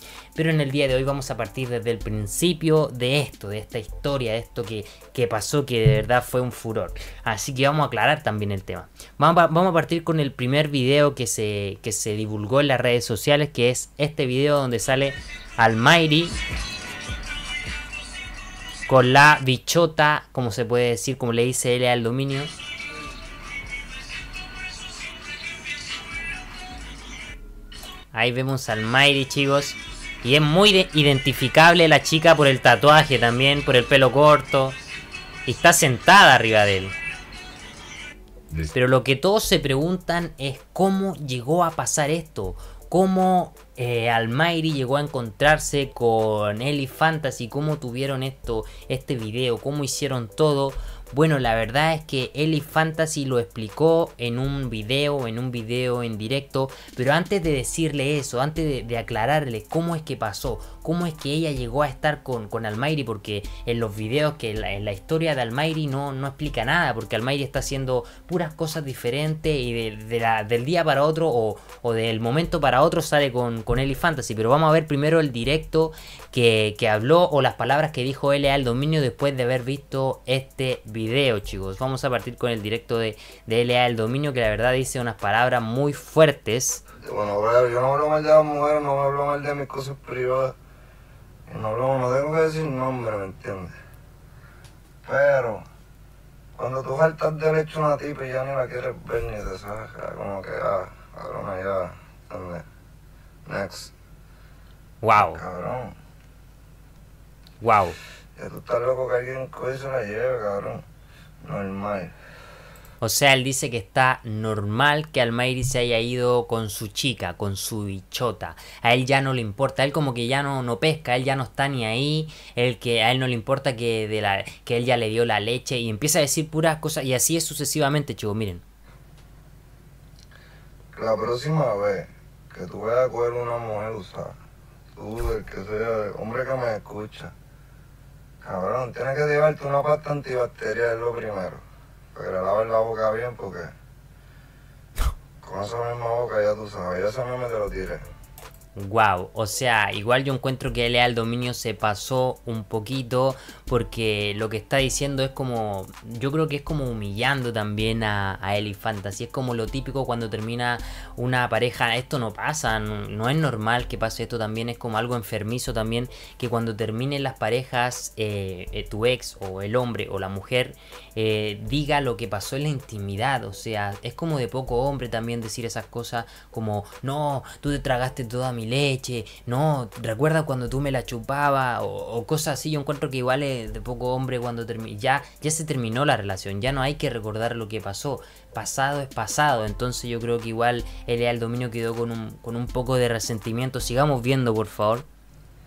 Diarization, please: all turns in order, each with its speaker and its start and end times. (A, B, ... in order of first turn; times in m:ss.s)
0:00.3-0:16.4 A
0:18.9-0:22.5 A
0:28.1-0:34.8 A
0:35.4-0:36.9 A
0:38.6-1:26.8 A
1:27.0-1:30.5 B
1:31.5-1:33.7 B
1:35.0-1:35.6 B
1:36.6-1:42.6 B
1:43.4-1:43.9 B
1:45.0-1:45.4 A
1:45.1-1:45.9 B
1:47.6-1:48.0 A
1:48.4-1:50.8 B
1:51.4-1:52.1 B
1:53.0-2:08.6 A
2:10.9-2:14.3 B
2:14.9-2:17.3 B
2:18.4-2:23.7 B
2:25.4-2:28.0 B
2:28.7-3:15.0 A